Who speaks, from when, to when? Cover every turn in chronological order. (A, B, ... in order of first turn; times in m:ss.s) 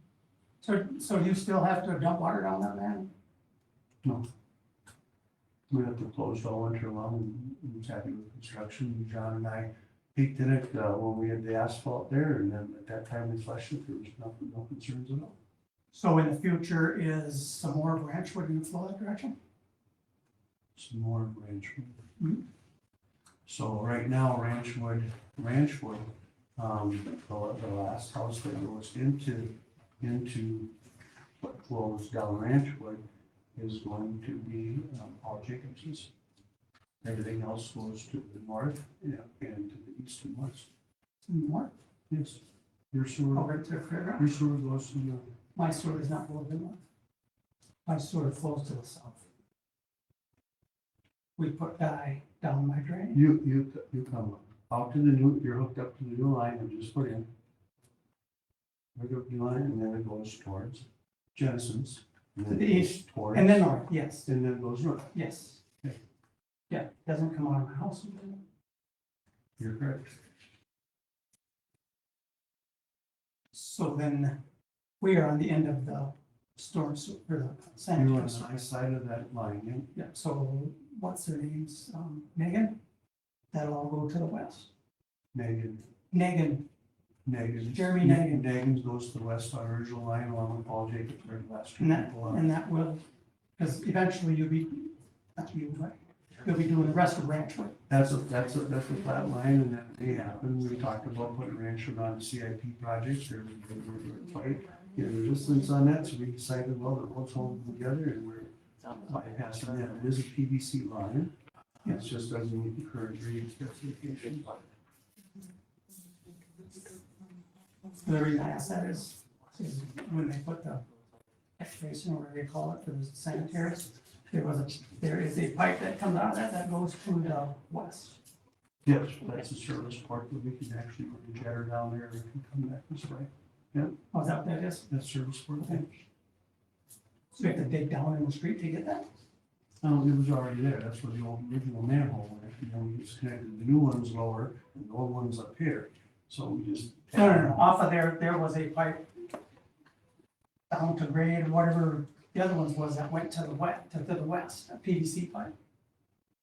0:00.6-0:03.1 A
0:05.7-0:15.4 B
0:15.9-0:19.4 A
0:20.7-0:22.0 B
0:23.4-0:30.7 B
0:31.4-0:33.0 B
0:33.5-0:36.1 B
0:37.0-0:40.7 B
0:41.3-0:41.7 A
0:42.1-0:43.5 B
0:43.3-0:44.3 A
0:44.2-0:45.3 B
0:45.5-0:46.8 A
0:47.8-0:49.2 A
0:51.4-0:53.2 A
0:53.1-0:57.3 B
0:58.9-1:03.7 B
1:02.5-1:04.3 A
1:04.2-1:05.1 B
1:05.1-1:05.6 A
1:06.7-1:08.4 A
1:09.6-1:10.2 B
1:13.5-1:14.4 A
1:15.0-1:18.4 A
1:18.0-1:19.9 B
1:19.9-1:22.8 A
1:23.5-1:24.7 A
1:25.3-1:25.8 B
1:26.1-1:26.7 A
1:27.2-1:32.5 B
1:27.7-1:28.4 A
1:31.8-1:33.0 A
1:33.6-1:37.8 A
1:37.9-1:51.3 B
1:51.8-1:54.6 B
1:58.0-2:00.8 A
2:01.6-2:08.2 A
2:08.8-2:14.0 B
2:14.1-2:14.9 A
2:14.9-2:16.0 B
2:17.3-2:19.0 A
2:19.8-2:27.6 B
2:27.1-2:29.2 A
2:30.7-2:35.5 A